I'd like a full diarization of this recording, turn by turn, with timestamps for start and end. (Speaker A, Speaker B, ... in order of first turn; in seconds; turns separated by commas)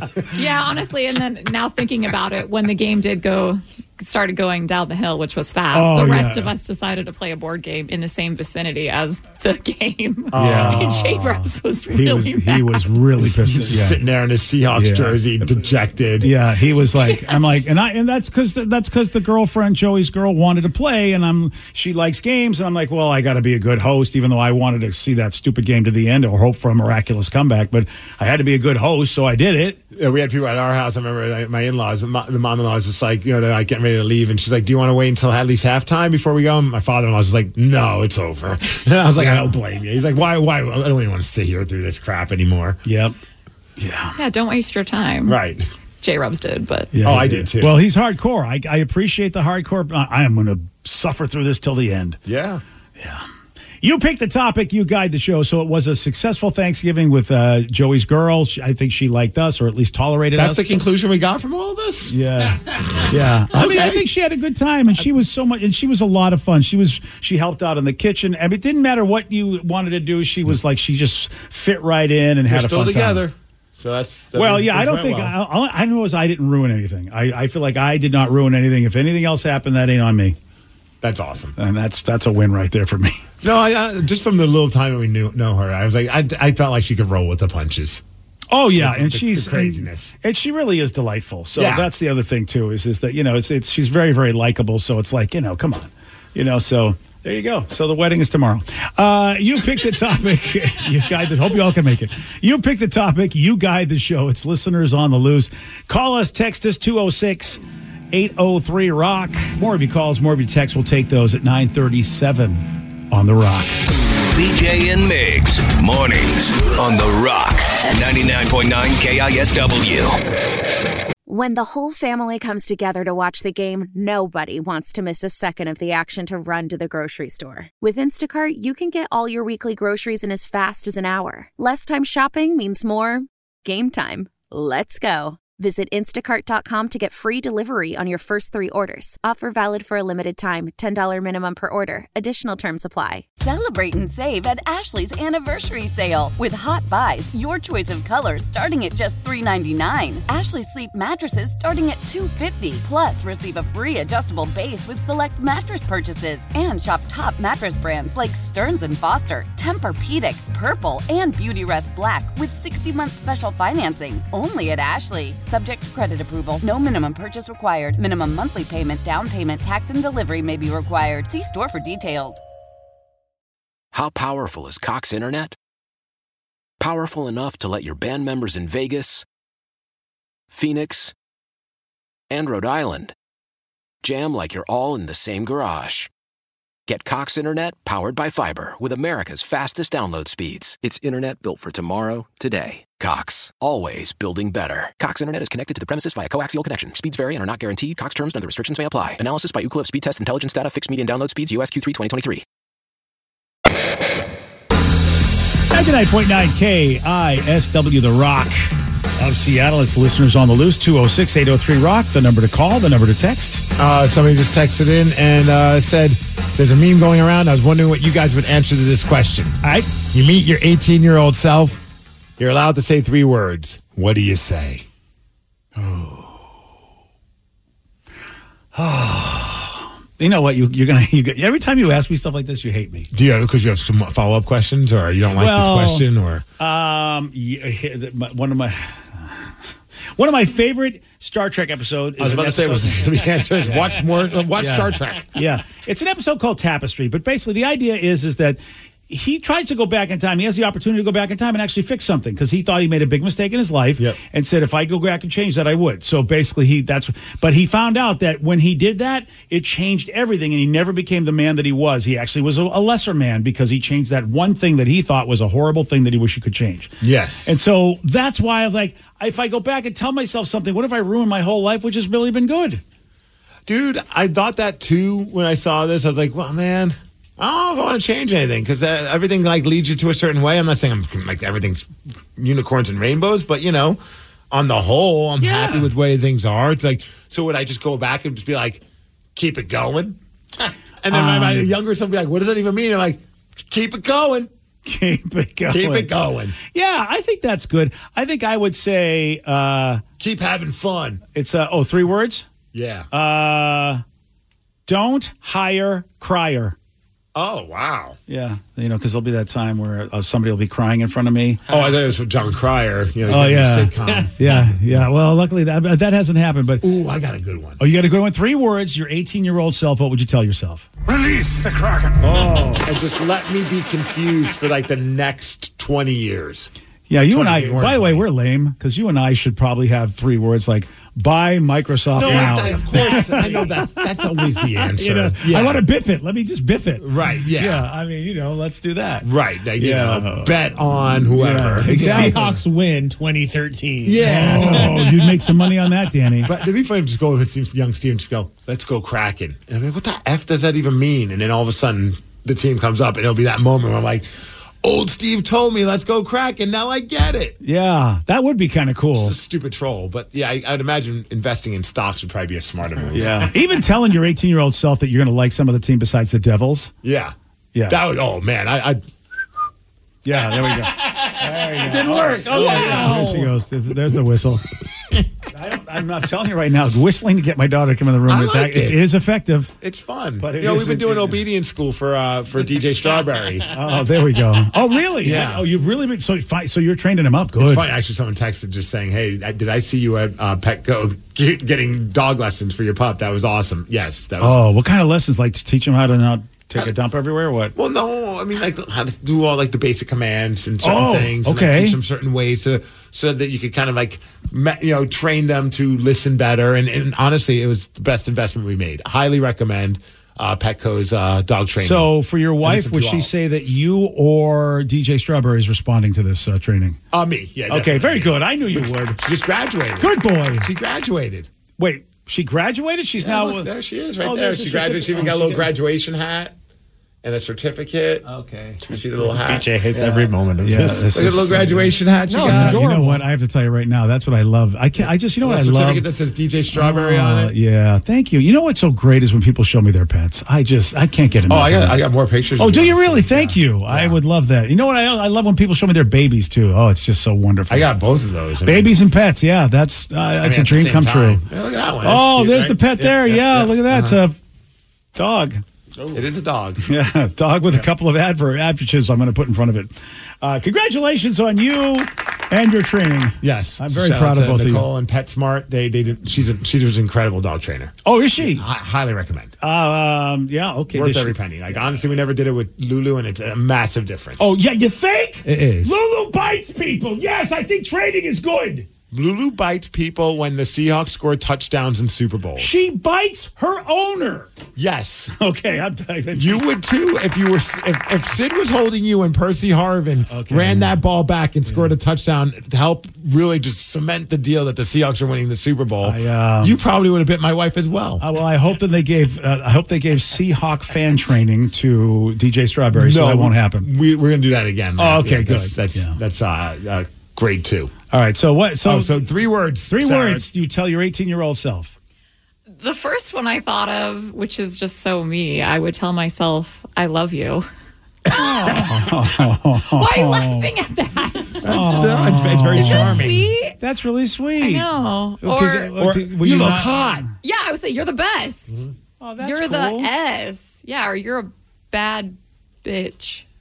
Speaker A: 0.3-12.9, Speaker B: 5.7-6.5, Speaker C: 10.3-11.0, Speaker B: 10.3-14.0, Speaker C: 13.2-16.3, Speaker B: 14.7-15.7, Speaker B: 16.2-29.8, Speaker A: 17.0-17.7, Speaker C: 29.9-42.8, Speaker B: 39.2-39.5, Speaker B: 42.9-43.1, Speaker B: 43.8-44.1, Speaker A: 44.1-45.4, Speaker C: 45.2-45.6, Speaker A: 46.0-46.9, Speaker B: 46.9-52.2, Speaker C: 47.0-47.8, Speaker C: 52.3-52.6, Speaker B: 53.0-53.2, Speaker B: 53.8-60.7, Speaker C: 60.3-62.1, Speaker B: 62.1-73.2, Speaker C: 62.7-64.1, Speaker C: 72.5-75.4, Speaker B: 74.3-80.4, Speaker C: 81.0-81.6, Speaker B: 81.6-83.2, Speaker C: 83.4-88.0, Speaker B: 88.5-113.8, Speaker C: 88.8-90.1, Speaker C: 91.6-91.9, Speaker D: 114.3-120.2, Speaker E: 121.3-143.2, Speaker F: 143.4-172.4, Speaker G: 173.9-175.6, Speaker G: 176.8-179.2, Speaker G: 180.5-181.1, Speaker G: 182.3-183.1, Speaker G: 184.0-186.1, Speaker G: 186.9-202.4, Speaker B: 205.7-213.7, Speaker C: 213.8-221.8, Speaker B: 219.6-219.9, Speaker C: 222.4-224.9, Speaker B: 225.8-226.4, Speaker B: 228.8-233.1, Speaker C: 233.1-236.4, Speaker B: 235.3-236.1, Speaker B: 236.6-239.5, Speaker B: 240.2-243.9, Speaker C: 242.2-245.4, Speaker B: 244.6-272.8, Speaker C: 267.0-267.6, Speaker C: 273.6-284.0, Speaker C: 284.5-288.8, Speaker B: 285.4-285.9, Speaker C: 289.4-290.2, Speaker C: 291.0-294.5, Speaker B: 291.1-291.7, Speaker B: 294.9-300.0, Speaker C: 295.7-296.6, Speaker C: 300.2-301.2, Speaker B: 301.3-302.4, Speaker C: 302.7-303.1, Speaker B: 303.1-304.0, Speaker B: 304.9-306.8, Speaker C: 307.4-308.2, Speaker B: 308.3-311.6, Speaker C: 311.7-314.3, Speaker B: 313.3-316.8, Speaker C: 316.8-317.8, Speaker B: 317.8-320.9, Speaker C: 321.1-328.3, Speaker B: 327.1-340.6, Speaker C: 332.1-335.9, Speaker H: 332.2-333.8, Speaker C: 337.0-337.9, Speaker C: 339.2-342.6, Speaker B: 341.2-342.4, Speaker H: 341.8-345.4, Speaker C: 344.0-345.1, Speaker B: 344.2-346.5, Speaker C: 346.4-354.3, Speaker C: 354.8-357.6, Speaker B: 357.6-359.4, Speaker C: 359.1-363.5, Speaker B: 363.1-366.9, Speaker C: 367.0-367.4, Speaker B: 367.7-368.0, Speaker C: 367.9-369.0, Speaker B: 370.2-374.6, Speaker C: 371.7-373.5, Speaker B: 375.5-379.7, Speaker C: 378.3-379.1, Speaker C: 379.8-383.7, Speaker B: 380.4-381.4, Speaker B: 383.7-387.9, Speaker C: 385.2-385.7, Speaker C: 387.6-394.6, Speaker B: 394.4-397.7, Speaker C: 397.8-413.3, Speaker B: 400.8-402.0, Speaker B: 411.8-417.0, Speaker C: 417.1-421.5, Speaker B: 417.7-419.2, Speaker B: 420.0-420.7, Speaker B: 421.8-423.7, Speaker C: 423.2-426.5, Speaker B: 424.2-425.7, Speaker C: 427.2-428.2, Speaker B: 428.3-428.8, Speaker C: 428.8-430.3, Speaker H: 429.2-431.2, Speaker B: 430.6-436.1, Speaker C: 430.9-432.8, Speaker H: 432.3-433.2, Speaker C: 435.0-437.5, Speaker B: 436.7-442.0, Speaker C: 441.5-444.2, Speaker B: 442.6-447.9, Speaker C: 447.7-449.0, Speaker B: 448.6-451.4, Speaker C: 450.4-454.2, Speaker B: 452.0-454.4, Speaker B: 455.1-455.6, Speaker C: 456.1-456.9, Speaker B: 456.9-464.9, Speaker C: 463.4-469.5, Speaker B: 468.0-468.6, Speaker B: 469.6-471.4, Speaker C: 470.9-474.5, Speaker B: 474.4-478.9, Speaker C: 475.4-476.0, Speaker C: 479.1-482.7, Speaker B: 482.6-484.5, Speaker C: 484.8-485.4, Speaker B: 485.4-486.6, Speaker C: 486.3-498.2, Speaker B: 490.3-491.0, Speaker B: 496.0-496.8, Speaker B: 498.2-503.9, Speaker C: 502.9-507.9, Speaker B: 505.0-506.2, Speaker B: 508.1-509.2, Speaker C: 508.8-510.4, Speaker B: 509.9-512.0, Speaker A: 512.8-517.7, Speaker A: 518.3-518.9, Speaker B: 518.3-520.7, Speaker A: 519.8-523.8, Speaker C: 521.6-523.5, Speaker B: 521.6-524.9, Speaker A: 524.6-526.0, Speaker B: 525.4-527.2, Speaker C: 526.0-527.3, Speaker A: 527.4-528.8, Speaker B: 529.2-530.1, Speaker A: 529.4-533.4